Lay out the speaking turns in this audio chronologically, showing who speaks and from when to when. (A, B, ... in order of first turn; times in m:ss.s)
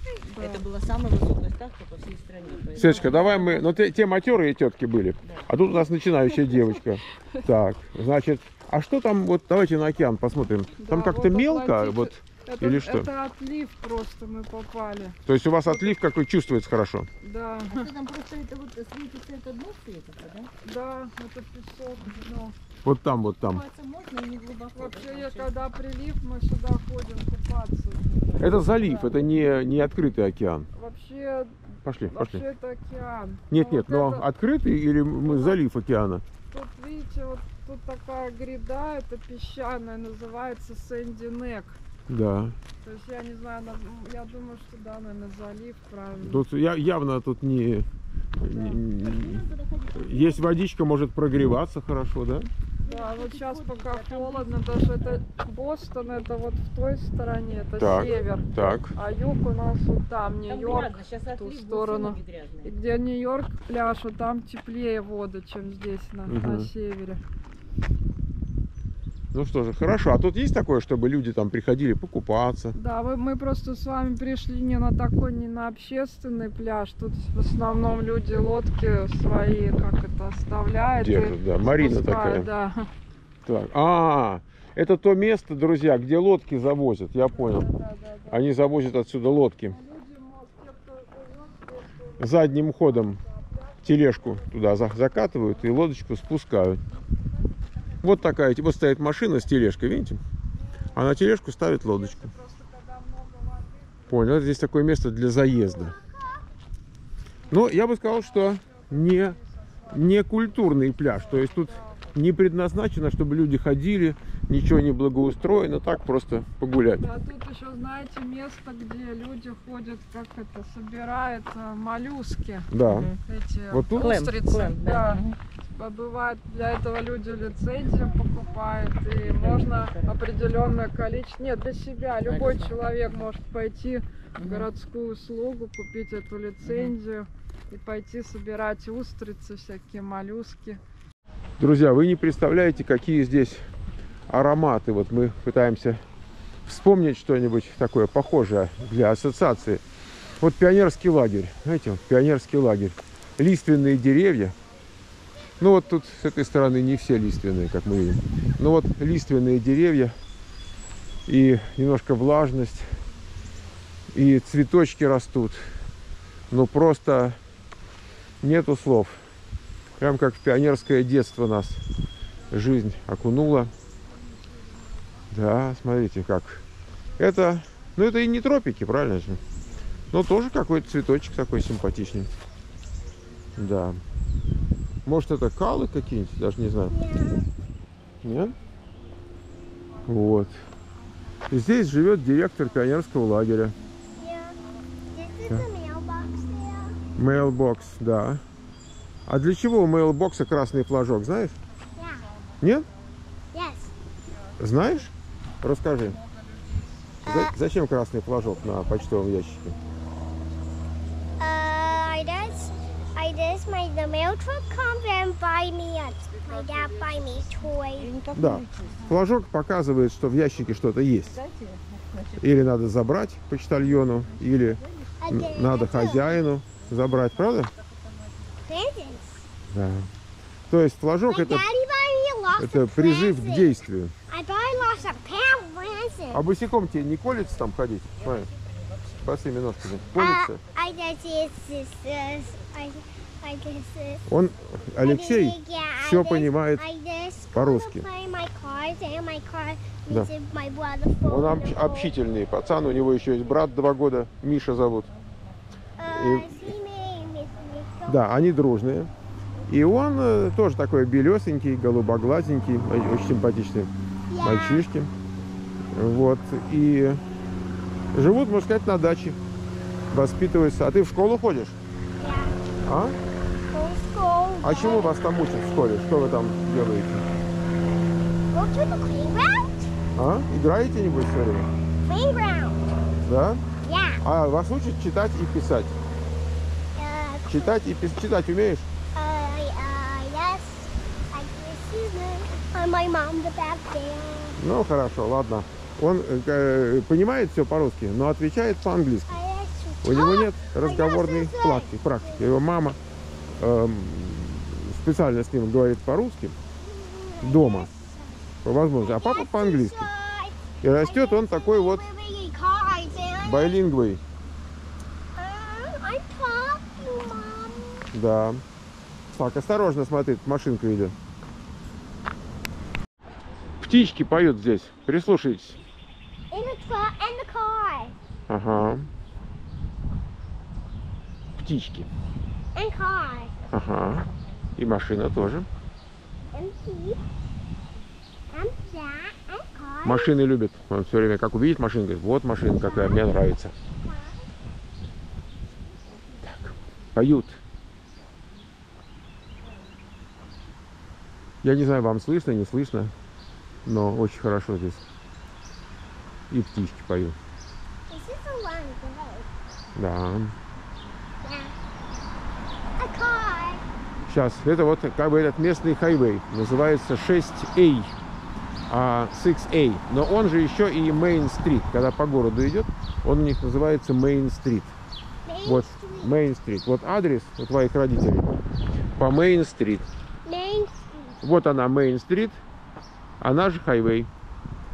0:00.2-0:00.6 A
0:00.4-0:03.6 B
0:02.8-0:03.6 A
0:02.8-0:13.1 C
0:05.2-0:05.5 B
0:10.8-0:15.9 A
0:15.2-0:17.1 C
0:17.2-0:17.9 A
0:17.7-0:20.5 B
0:20.6-0:22.5 A
0:22.8-0:23.6 C
0:23.4-0:25.5 B
0:24.8-0:29.1 A
0:28.4-0:30.7 C
0:30.7-0:34.2 A
0:31.8-0:32.4 C
0:33.5-0:36.2 C
0:35.2-0:35.6 A
0:36.5-0:41.8 A
0:42.1-0:42.6 C
0:42.8-0:46.4 A
0:46.2-0:47.8 C
0:48.4-0:52.5 C
0:48.4-0:48.8 A
0:48.9-0:50.5 B
0:52.8-0:55.2 B
0:52.8-1:07.2 A
0:57.8-0:58.9 C
1:00.5-1:02.7 B
1:06.3-1:06.7 C
1:09.3-1:12.8 C
1:12.7-1:22.9 A
1:21.0-1:22.5 C
1:23.4-1:27.7 C
1:27.3-1:28.4 A
1:28.3-1:29.8 C
1:29.7-1:34.5 A
1:32.2-1:33.2 C
1:33.8-1:36.8 C
1:38.0-1:40.2 C
1:40.9-1:42.3 C
1:41.8-1:44.1 A
1:44.1-1:46.0 C
1:45.9-1:46.4 D
1:47.5-1:49.4 C
1:48.0-1:52.1 A
1:49.9-1:57.0 C
1:57.0-2:02.7 A
2:02.7-2:03.1 C
2:02.8-2:03.2 B
2:03.2-2:05.2 A
2:03.7-2:04.2 C
2:03.9-2:05.4 B
2:05.7-2:20.8 A
2:09.2-2:10.2 B
2:12.3-2:13.3 B
2:14.4-2:14.7 B
2:16.6-2:16.9 B
2:21.6-2:23.6 C
2:24.3-2:26.0 C
2:26.6-2:29.8 C
2:30.4-2:34.6 C
2:35.6-2:40.1 C
2:41.2-2:42.8 C
2:44.1-2:45.6 C
2:46.5-2:47.4 C
2:48.4-2:49.2 C
2:50.0-2:51.8 C
2:52.5-2:53.7 C
2:55.3-2:56.6 C
2:57.2-2:59.4 C
3:00.1-3:02.3 C
3:03.6-3:04.0 C
3:05.0-3:06.9 C
3:06.9-3:07.5 D
3:08.2-3:08.5 C
3:10.0-3:10.6 C
3:11.5-3:13.8 C
3:14.2-3:14.6 D
3:15.1-3:17.0 D
3:17.1-3:18.4 C
3:19.3-3:21.6 C
3:22.0-3:22.2 D
3:22.6-3:22.9 C
3:23.5-3:23.9 D
3:24.6-3:26.2 C
3:26.1-3:27.2 A
3:27.2-3:29.8 C
3:27.2-3:27.5 D
3:31.4-3:38.1 D
3:36.4-3:37.1 A
3:38.0-3:39.2 B
3:38.3-3:41.4 C
3:41.3-3:42.5 B
3:42.4-3:47.7 C
3:43.8-3:45.2 B
3:45.2-3:46.5 D
3:47.8-3:48.5 B
3:48.6-3:49.4 D
3:49.7-3:50.1 C
3:50.7-3:51.6 C
3:51.3-3:53.7 D
3:52.6-3:54.1 C
3:54.3-3:56.4 D
3:56.3-3:58.5 C
3:59.2-4:00.6 C
4:00.1-4:04.2 D
4:04.3-4:06.8 C
4:05.0-4:12.1 D
4:07.5-4:08.1 C
4:11.2-4:15.1 C
4:16.0-4:18.2 D
4:16.1-4:16.7 C
4:18.0-4:19.1 C
4:19.7-4:25.1 C
4:24.3-4:24.8 D
4:25.9-4:27.2 C
4:28.1-4:29.4 C
4:30.1-4:31.8 C
4:32.2-4:32.6 D
4:32.8-4:33.2 C
4:33.7-4:35.1 D
4:34.6-4:37.2 C
4:38.5-4:39.9 D
4:40.2-4:41.7 C
4:42.0-4:42.9 D
4:43.2-4:43.6 C
4:43.8-4:44.2 D
4:44.2-4:45.9 C
4:47.0-4:48.0 D
4:47.5-4:48.9 C
4:49.1-4:54.6 D
4:54.6-4:59.4 C
4:59.3-5:02.4 D
5:00.0-5:03.0 C
5:03.6-5:06.6 C
5:06.8-5:08.5 D
5:07.4-5:07.9 C
5:08.6-5:10.1 C
5:09.0-5:13.8 D
5:10.8-5:12.0 C
5:13.4-5:14.2 C
5:15.4-5:18.1 D
5:18.1-5:18.6 C
5:19.3-5:21.1 C
5:23.8-5:25.8 C
5:26.5-5:28.2 D
5:28.5-5:29.1 C
5:31.6-5:32.1 C
5:32.7-5:33.6 D
5:33.7-5:35.7 C
5:36.5-5:37.2 D
5:38.5-5:40.3 D
5:40.0-5:43.7 C
5:42.8-5:43.2 D
5:44.0-5:44.3 D
5:46.4-5:47.6 C
5:51.6-5:53.1 C
5:53.8-5:55.0 C
5:56.5-5:57.4 C
5:58.1-5:59.5 D
5:59.9-6:00.5 C
6:01.4-6:01.7 D
6:03.0-6:03.8 D
6:04.3-6:08.1 C
6:08.9-6:14.9 C
6:15.4-6:16.3 D
6:15.6-6:18.6 C
6:19.2-6:20.0 C
6:20.4-6:21.4 D
6:21.4-6:22.6 C
6:23.4-6:24.3 C